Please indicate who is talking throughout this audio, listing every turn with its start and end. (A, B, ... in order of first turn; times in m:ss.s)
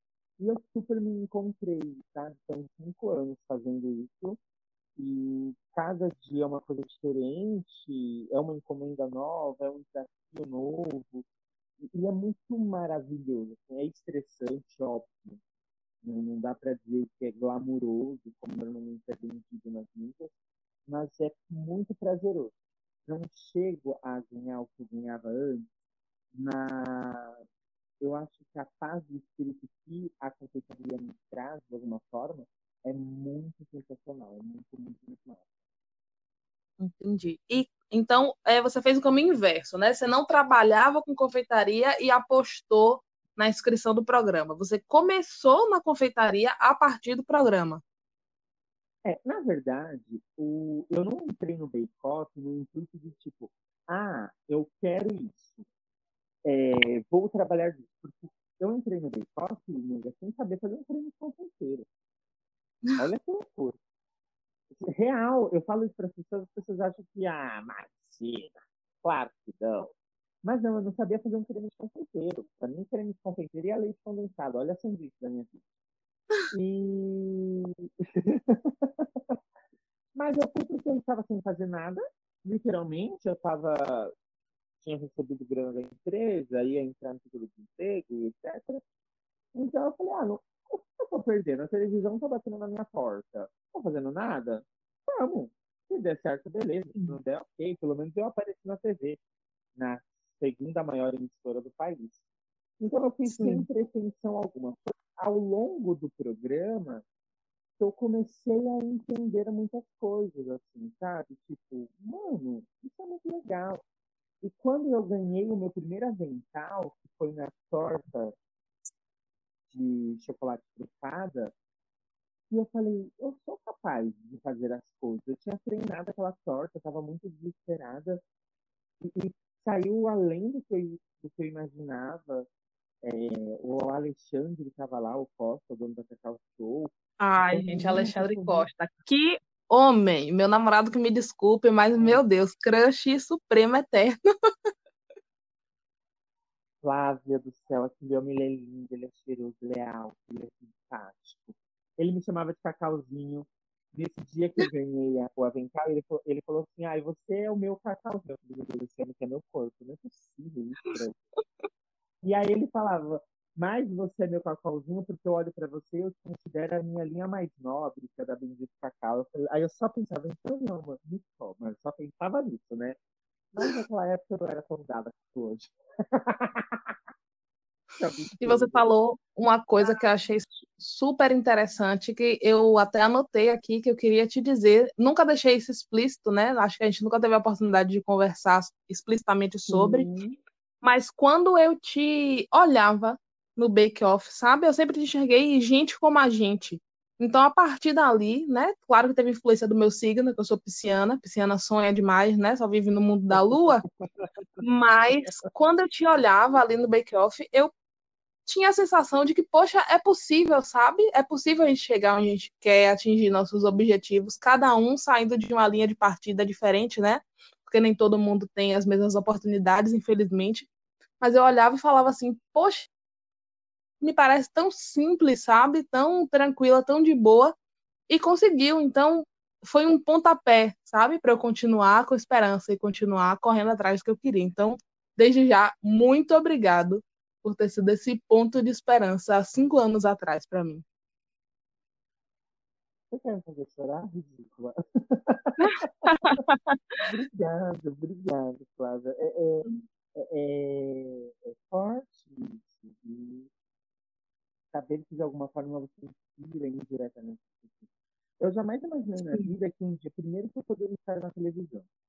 0:00.4-0:04.4 A
0:05.0-0:11.2 A
0:11.8-0:15.4 A
0:16.0-0:20.3 A
0:20.9-0:22.5 A
0:23.0-0:25.7 A
0:26.3-0:27.4 A
0:28.0-0:35.4 A
0:36.8-0:47.8 B
0:49.0-0:55.6 A
0:56.4-1:01.9 A
1:03.0-1:03.8 A
1:04.7-1:09.9 A
1:10.4-1:15.6 A
1:16.5-1:19.4 A
1:20.1-1:24.1 A
1:24.8-1:28.8 A
1:29.5-1:39.2 A
1:39.8-1:42.2 A
1:42.8-1:47.0 A
1:43.3-1:43.6 B
1:47.8-1:53.8 A
1:54.4-1:58.4 A
1:59.7-2:01.5 A
2:02.5-2:08.2 A
2:09.0-2:12.5 A
2:13.0-2:16.9 A
2:17.2-2:24.2 B
2:17.4-2:18.7 A
2:21.9-2:22.2 A
2:26.8-2:41.2 A
2:41.4-2:41.6 B
2:42.2-2:53.0 A
2:53.5-2:56.9 A
2:58.0-2:58.9 A
2:58.4-3:10.1 B
3:09.7-3:10.4 A
3:10.8-3:23.8 B
3:23.3-3:24.6 A
3:24.6-3:27.7 B
3:28.5-3:40.7 B
3:41.2-3:42.9 B
3:44.0-3:47.5 B
3:48.1-4:00.8 B
4:03.1-4:06.1 A
4:05.6-4:07.0 B
4:07.0-4:13.5 A
4:14.7-4:17.9 A
4:18.4-4:21.9 A